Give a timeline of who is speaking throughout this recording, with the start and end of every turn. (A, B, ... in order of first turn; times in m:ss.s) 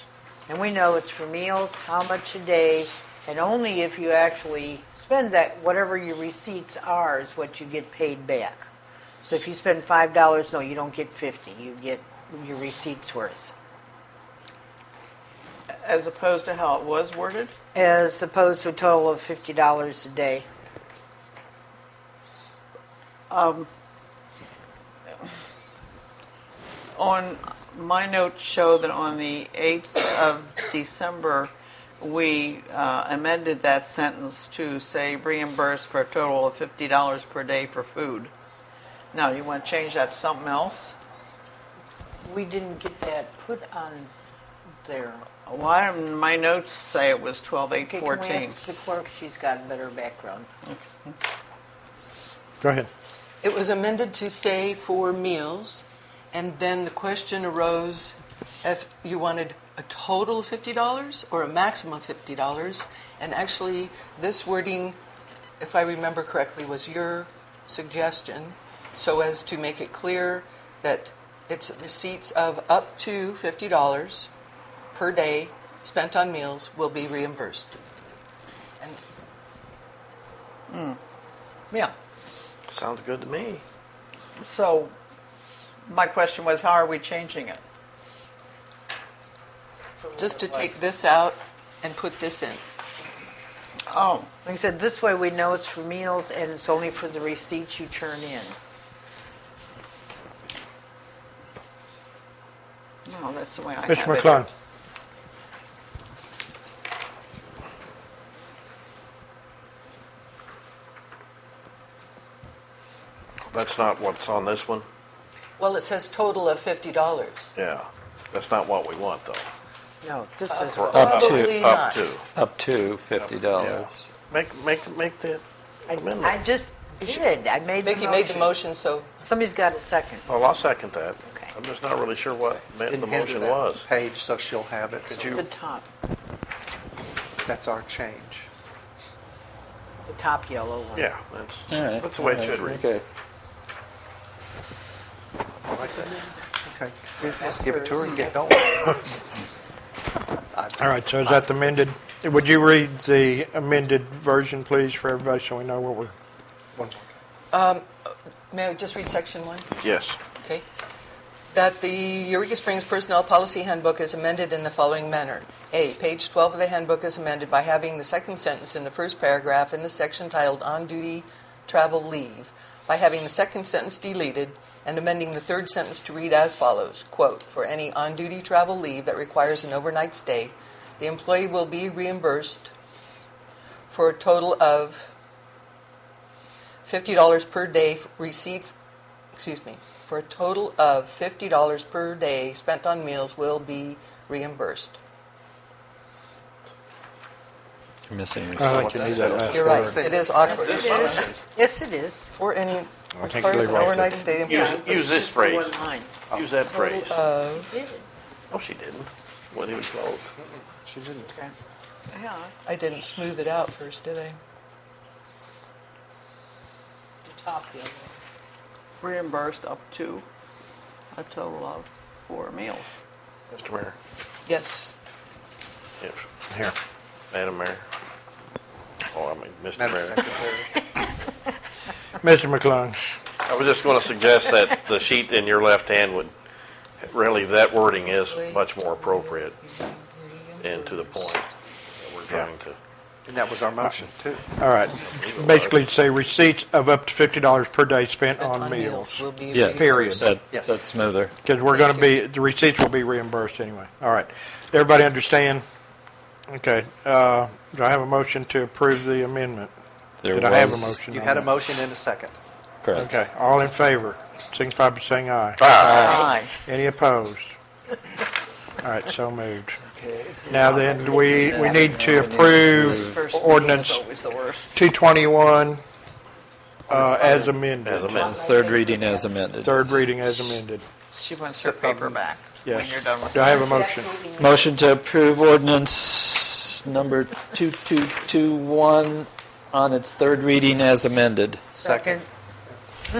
0:00.5-0:08.7 A
0:09.2-0:13.5 A
0:15.8-0:17.5 B
0:17.7-0:20.5 A
0:23.3-0:23.7 B
0:26.9-0:38.3 B
0:39.1-0:41.0 B
0:42.2-0:44.1 A
0:44.8-0:45.2 A
0:45.4-0:48.6 B
0:47.8-0:50.5 A
0:50.6-0:51.1 B
0:52.6-0:52.9 C
0:53.4-1:05.0 D
1:05.6-1:14.3 D
1:14.9-1:17.8 D
1:20.7-1:21.0 B
1:22.7-1:23.6 E
1:24.4-1:24.9 B
1:25.9-1:27.6 B
1:30.1-1:32.6 D
1:33.9-1:34.3 B
1:34.4-1:38.6 A
1:43.0-1:44.5 B
1:43.9-1:44.5 C
1:53.5-1:54.9 E
1:55.6-1:57.5 D
1:57.5-1:59.4 E
2:00.0-2:01.1 A
2:00.5-2:02.1 D
2:00.7-2:02.2 E
2:00.9-2:01.6 F
2:02.3-2:03.9 F
2:03.1-2:06.4 E
2:05.9-2:08.6 A
2:07.8-2:09.2 D
2:09.2-2:10.2 A
2:10.3-2:13.9 E
2:12.8-2:15.4 G
2:15.0-2:15.4 E
2:15.3-2:15.9 A
2:17.4-2:18.5 G
2:20.0-2:21.1 A
2:20.9-2:22.9 E
2:21.7-2:23.0 F
2:25.7-2:26.1 G
2:25.8-2:26.2 A
2:26.6-2:29.0 G
2:27.4-2:29.0 A
2:30.5-2:31.4 G
2:30.8-2:36.1 C
2:36.7-2:37.1 G
2:37.5-2:39.8 D
2:39.8-2:40.2 E
2:40.3-2:40.6 D
2:41.5-3:02.7 D
3:03.9-3:05.1 D
3:06.8-3:08.7 D
3:09.4-3:15.0 D
3:18.1-3:18.9 F
3:18.6-3:20.0 C
3:18.6-3:21.4 G
3:19.0-3:21.3 D
3:20.5-3:22.3 A
3:20.6-3:21.1 E
3:22.3-3:24.8 D
3:23.1-3:24.2 C
3:24.4-3:28.1 A
3:24.5-3:25.8 E
3:26.3-3:27.2 E
3:27.1-3:27.8 D
3:28.5-3:30.3 E
3:30.4-3:31.3 G
3:31.3-3:31.5 A
3:32.1-3:32.5 B
3:32.6-3:34.4 D
3:37.2-3:38.1 A
3:39.0-3:40.2 B
3:41.1-3:42.9 B
3:43.5-3:44.0 E
3:44.5-3:44.9 D
3:46.0-3:46.2 E
3:46.5-3:46.7 C
3:47.3-3:47.8 E
3:49.1-3:50.3 E
3:49.8-3:50.8 G
3:52.2-3:53.0 C
3:53.4-3:56.3 E
3:57.0-3:59.6 E
3:58.0-4:01.3 D
4:00.6-4:02.8 E
4:03.2-4:04.5 G
4:04.5-4:10.4 C
4:05.0-4:05.9 E
4:08.4-4:10.4 D
4:09.5-4:11.3 F
4:10.5-4:10.8 G
4:11.4-4:15.6 C
4:16.5-4:19.7 C
4:20.2-4:21.0 F
4:20.3-4:21.6 C
4:21.1-4:22.4 G
4:22.8-4:23.1 F
4:22.9-4:27.5 C
4:25.6-4:26.2 F
4:25.8-4:26.5 B
4:28.8-4:29.8 C
4:29.9-4:33.2 F
4:30.5-4:34.0 C
4:32.5-4:34.9 B
4:34.7-4:35.8 C
4:36.9-4:38.1 C
4:36.9-4:39.3 A
4:37.3-4:38.5 E
4:38.5-4:40.0 F
4:39.6-4:40.8 C
4:41.1-4:43.6 B
4:41.5-4:42.2 G
4:42.6-4:44.1 C
4:43.4-4:44.7 A
4:44.4-4:51.6 F
4:51.7-4:52.2 A
4:51.7-4:52.8 G